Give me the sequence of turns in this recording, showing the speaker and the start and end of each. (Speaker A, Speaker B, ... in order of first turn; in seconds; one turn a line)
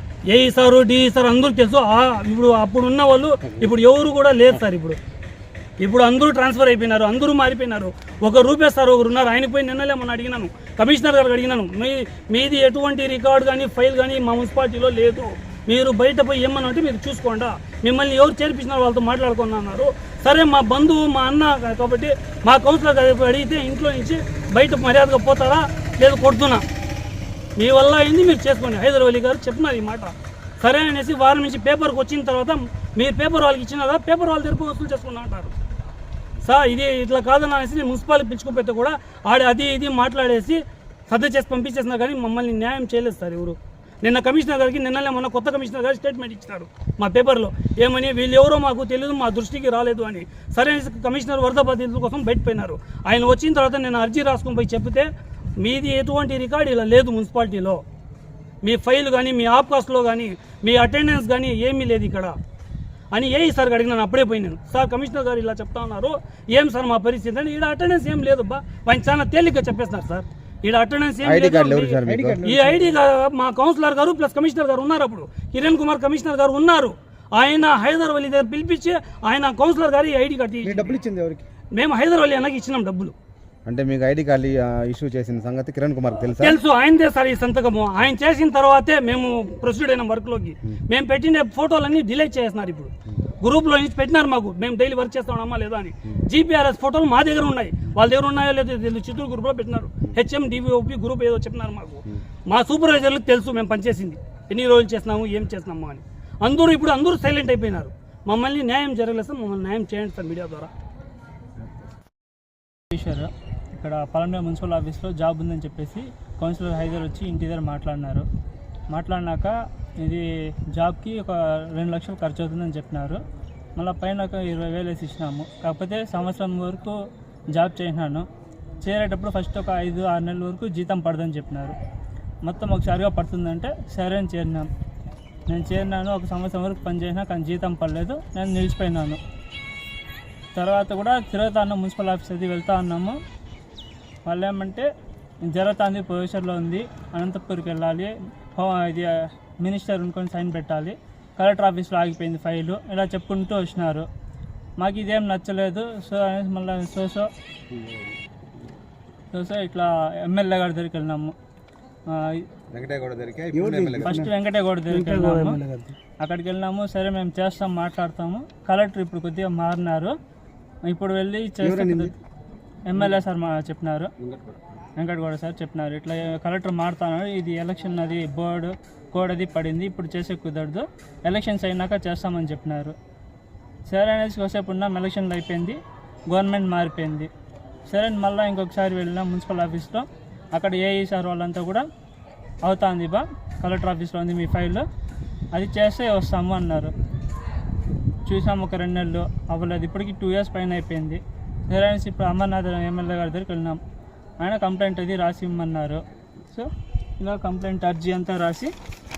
Speaker A: 0.3-5.0
Speaker A: 5.8-26.6
Speaker A: 27.6-35.5
Speaker A: 36.4-57.8
Speaker A: 58.6-62.4
Speaker A: 63.1-81.0
Speaker B: 71.2-72.4
Speaker C: 72.1-73.0
Speaker C: 80.6-81.4
Speaker A: 81.7-83.2
Speaker B: 83.7-86.6
Speaker A: 86.4-110.7
Speaker D: 112.9-118.3
Speaker D: 118.9-123.2
Speaker D: 123.8-127.0
Speaker D: 127.5-128.3
Speaker D: 128.8-131.8
Speaker D: 132.4-134.7
Speaker D: 135.5-139.2
Speaker D: 140.6-143.2
Speaker D: 144.2-144.9
Speaker D: 145.5-154.1
Speaker D: 154.8-157.3
Speaker D: 159.3-161.3
Speaker D: 162.1-162.5
Speaker B: 162.7-164.3
Speaker C: 163.5-164.3
Speaker D: 164.1-165.6
Speaker A: 164.9-165.9
Speaker D: 166.2-170.1
Speaker D: 170.9-172.2
Speaker C: 171.6-172.1
Speaker D: 172.9-174.1
Speaker D: 175.0-182.9
Speaker D: 183.9-185.8
Speaker D: 186.3-187.3
Speaker D: 187.9-191.8
Speaker D: 192.7-194.9
Speaker D: 195.6-196.9
Speaker D: 198.3-203.8
Speaker D: 204.4-208.7